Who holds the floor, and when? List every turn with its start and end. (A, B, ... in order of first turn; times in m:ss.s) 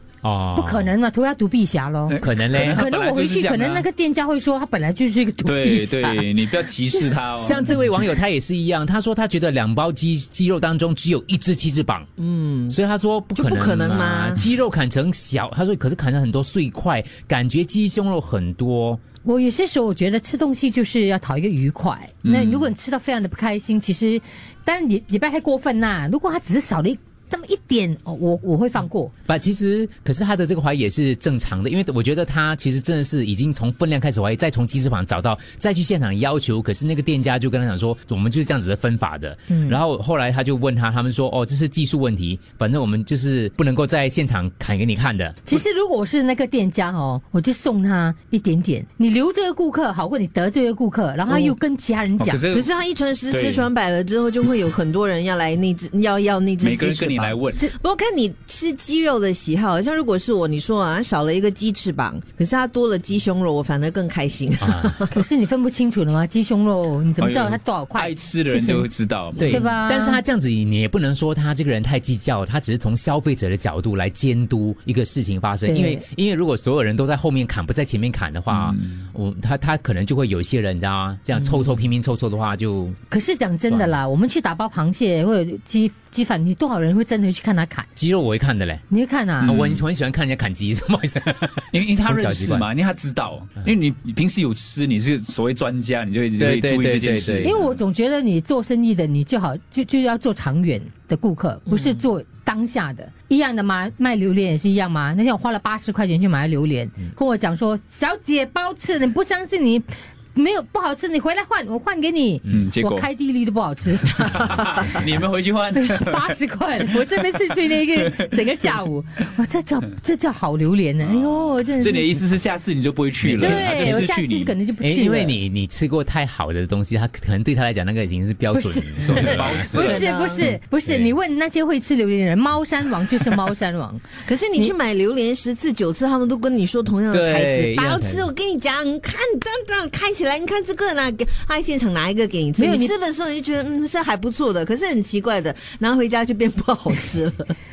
0:00.2-0:00.9 A
0:00.6-0:06.3 B
0:02.1-0:03.9 C
0:02.2-0:02.8 A
0:05.4-0:07.8 C
0:07.4-0:12.1 A
0:12.2-0:12.8 D
0:12.7-0:19.0 A
0:13.4-0:14.4 D
0:19.2-0:29.1 B
0:22.2-0:22.7 C
0:29.3-0:45.4 A
0:39.5-0:39.8 B
0:45.5-0:52.4 B
0:52.2-0:52.7 C
0:52.5-1:05.2 D
0:53.3-0:53.7 C
0:56.6-0:57.7 C
1:04.6-1:05.0 A
1:05.1-1:10.2 B
1:07.2-1:09.6 C
1:09.4-1:23.0 A
1:15.7-1:16.0 B
1:18.5-1:19.0 C
1:23.1-1:27.9 B
1:23.7-1:24.0 A
1:28.0-1:28.8 A
1:28.9-1:29.5 B
1:29.4-1:32.7 A
1:29.4-1:29.8 C
1:31.7-1:37.7 C
1:36.4-1:37.7 A
1:37.4-1:54.2 B
1:52.5-1:53.1 C
1:54.1-1:58.6 C
1:55.8-2:02.2 B
2:01.0-2:04.6 C
2:03.2-2:04.0 A
2:03.4-2:05.4 B
2:04.8-2:09.7 A
2:08.5-2:14.7 B
2:09.0-2:10.1 C
2:09.5-2:10.5 D
2:10.4-2:11.1 A
2:14.2-2:27.6 D
2:17.1-2:18.3 A
2:22.6-2:23.0 B